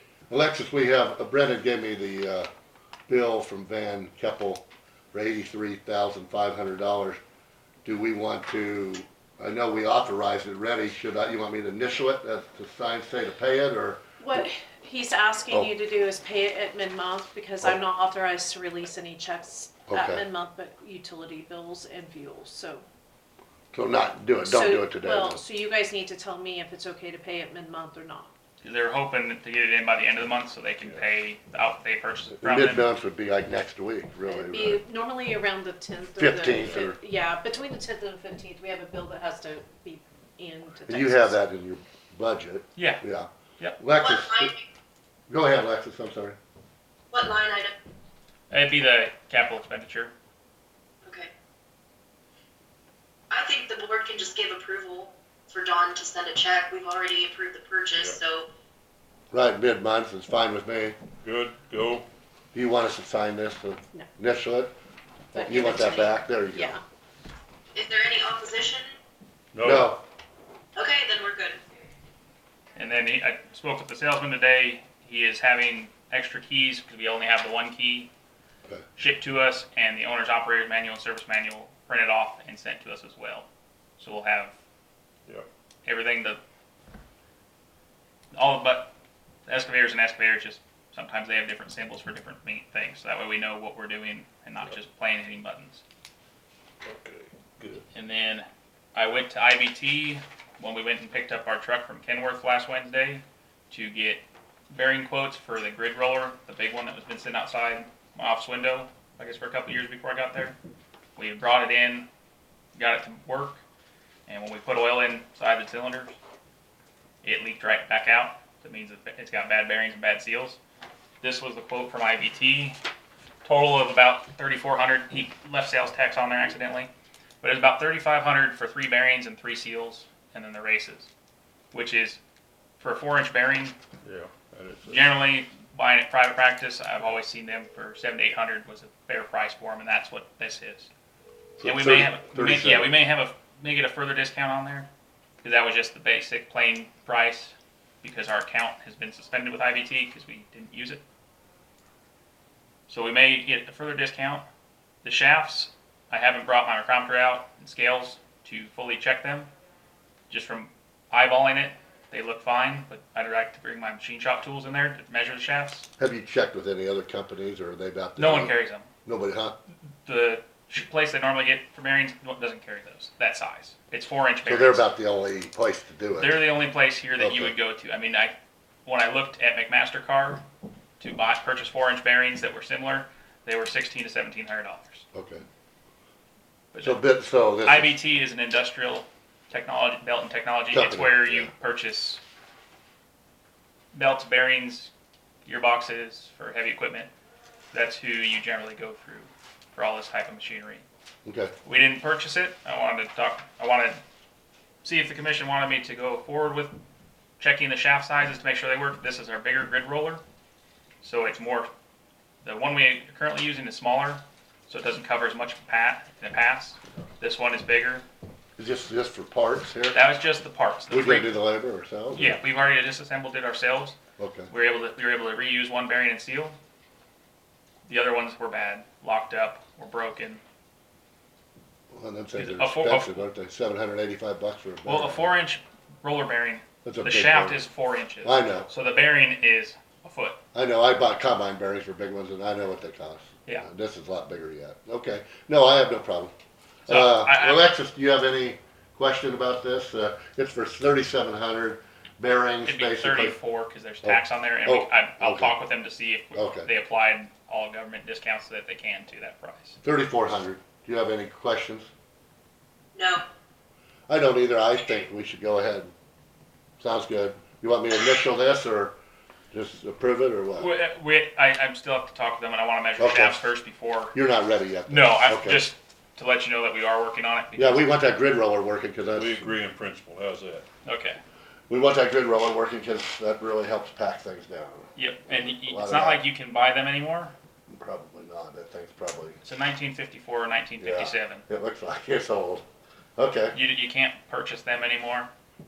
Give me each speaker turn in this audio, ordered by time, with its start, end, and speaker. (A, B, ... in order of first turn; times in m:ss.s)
0:00.3-0:02.5 A
0:03.1-0:07.2 A
0:07.8-0:14.5 A
0:14.2-0:22.8 B
0:19.9-0:20.2 A
0:23.7-0:25.4 A
0:24.4-0:28.3 B
0:28.6-0:32.8 C
0:30.8-0:31.1 D
0:32.4-0:34.8 A
0:34.2-0:41.4 B
0:36.2-0:37.0 A
0:36.5-0:36.8 D
0:40.8-0:44.5 A
0:42.8-0:43.0 C
0:44.0-0:44.6 E
0:45.3-0:46.4 A
0:47.1-0:47.7 E
0:48.5-0:50.1 C
0:51.0-0:51.3 E
0:53.3-0:58.5 E
0:59.3-1:01.0 A
1:01.2-1:02.1 D
1:02.5-1:04.7 A
1:05.3-1:06.8 A
1:05.3-1:06.8 B
1:07.7-1:08.9 E
1:09.5-1:09.9 D
1:09.6-1:10.0 A
1:10.7-1:11.6 E
1:12.7-1:18.1 C
1:19.0-1:23.4 C
1:24.0-1:24.5 C
1:25.8-1:26.4 C
1:28.3-1:28.9 C
1:29.5-1:35.8 C
1:36.8-1:37.8 D
1:37.9-1:50.5 C
1:51.2-1:52.0 C
1:52.7-1:53.6 C
1:54.3-1:56.1 C
1:57.2-2:00.6 C
2:01.2-2:02.8 C
2:03.4-2:06.9 C
2:07.4-2:11.1 C
2:11.7-2:12.2 C
2:12.8-2:13.7 C
2:14.0-2:15.0 D
2:14.9-2:20.9 C
2:21.6-2:23.0 A
2:21.6-2:24.9 C
2:25.4-2:31.0 C
2:32.9-2:34.4 C
2:35.0-2:39.5 C
2:40.3-2:45.8 C
2:46.0-2:48.5 A
2:48.2-2:48.9 C
2:49.0-2:49.5 A
2:50.0-2:54.8 C
2:54.4-2:56.4 A
2:56.2-2:58.3 C
2:57.2-2:57.5 A
2:58.8-3:00.4 C
3:01.0-3:05.0 C
3:05.1-3:05.4 A
3:06.7-3:07.0 C
3:06.8-3:07.9 A
3:07.6-3:12.2 C
3:10.7-3:11.5 A
3:13.9-3:14.9 C
3:15.4-3:17.1 C
3:17.7-3:20.8 C
3:21.2-3:21.5 A
3:21.6-3:24.0 C
3:24.8-3:26.8 C
3:27.4-3:30.2 C
3:31.0-3:31.7 C
3:32.4-3:38.0 C
3:38.6-3:40.0 A
3:39.9-3:41.3 C
3:40.9-3:42.4 A
3:42.1-3:44.0 C
3:44.2-3:44.5 A
3:44.5-3:46.6 C
3:47.9-3:50.4 C
3:51.9-3:55.3 A
3:52.4-3:53.2 C
3:54.8-4:00.4 C
3:56.8-3:57.6 A
3:58.2-3:58.7 A
4:00.5-4:06.3 A
4:06.9-4:07.7 C
4:06.9-4:13.4 A
4:12.6-4:19.8 C
4:14.0-4:15.6 A
4:16.3-4:16.7 A
4:19.8-4:21.9 A
4:22.9-4:23.2 E
4:24.1-4:25.9 A
4:26.8-4:28.9 A
4:29.5-4:30.7 A
4:30.6-4:34.1 C
4:33.0-4:33.4 A
4:34.1-4:35.7 A
4:34.9-4:37.9 C
4:37.6-4:39.5 A
4:39.1-4:40.7 D
4:40.8-4:41.2 C
4:41.7-4:46.2 A
4:45.0-4:47.3 C
4:47.7-4:49.4 A
4:49.4-4:51.4 C
4:50.8-4:52.6 A
4:53.2-4:53.6 A
4:53.5-4:55.3 C